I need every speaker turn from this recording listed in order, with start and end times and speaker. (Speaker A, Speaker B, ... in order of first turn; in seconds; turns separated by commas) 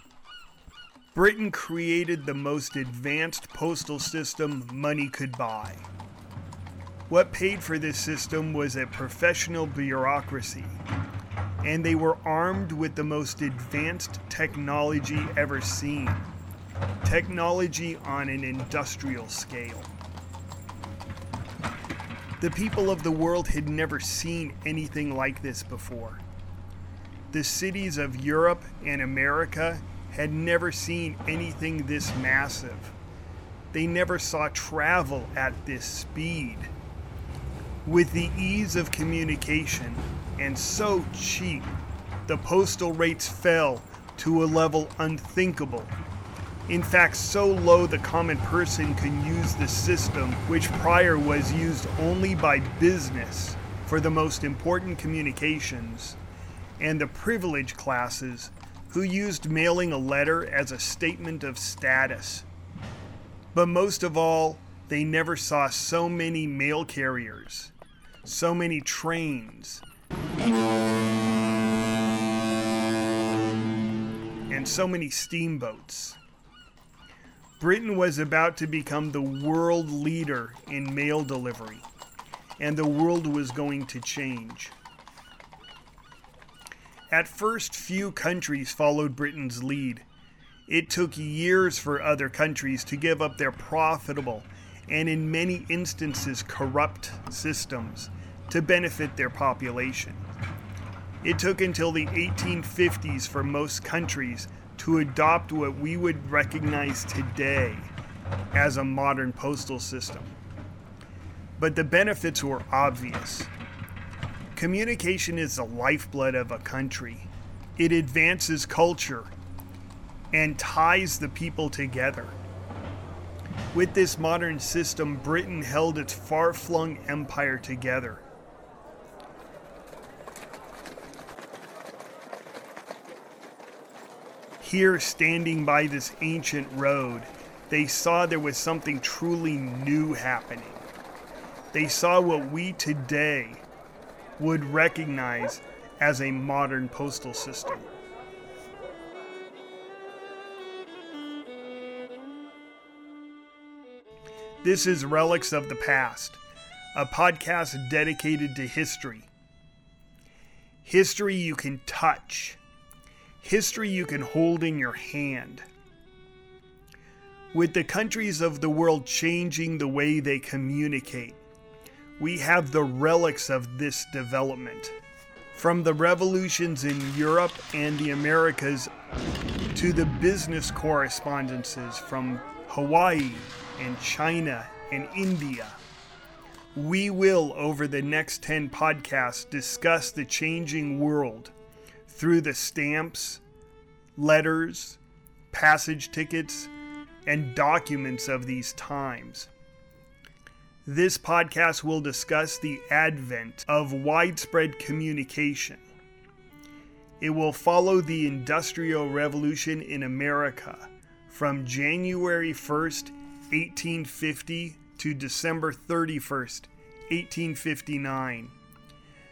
Speaker A: 1.1-5.9, Speaker A: 7.1-10.8, Speaker A: 11.6-16.3, Speaker A: 17.0-19.9, Speaker A: 22.4-26.2, Speaker A: 27.3-33.0, Speaker A: 33.7-36.7, Speaker A: 37.8-41.7, Speaker A: 42.3-46.0, Speaker A: 46.7-56.2, Speaker A: 56.8-62.5, Speaker A: 63.5-67.7, Speaker A: 68.2-69.8, Speaker A: 74.5-76.2, Speaker A: 77.6-81.9, Speaker A: 82.6-84.8, Speaker A: 87.1-90.1, Speaker A: 90.7-100.2, Speaker A: 101.2-107.9, Speaker A: 108.5-110.3, Speaker A: 111.6-113.5, Speaker A: 114.5-119.3, Speaker A: 120.3-122.4, Speaker A: 123.7-128.2, Speaker A: 134.6-140.9, Speaker A: 141.7-143.7, Speaker A: 144.4-147.9, Speaker A: 154.6-156.4, Speaker A: 156.9-159.3, Speaker A: 160.8-162.6, Speaker A: 163.4-165.7, Speaker A: 167.5-171.4, Speaker A: 172.2-175.0, Speaker A: 175.5-178.9, Speaker A: 179.7-185.8, Speaker A: 186.7-191.5, Speaker A: 192.1-193.4, Speaker A: 194.2-195.0, Speaker A: 195.5-196.7, Speaker A: 197.3-199.5, Speaker A: 200.8-205.8, Speaker A: 207.2-218.6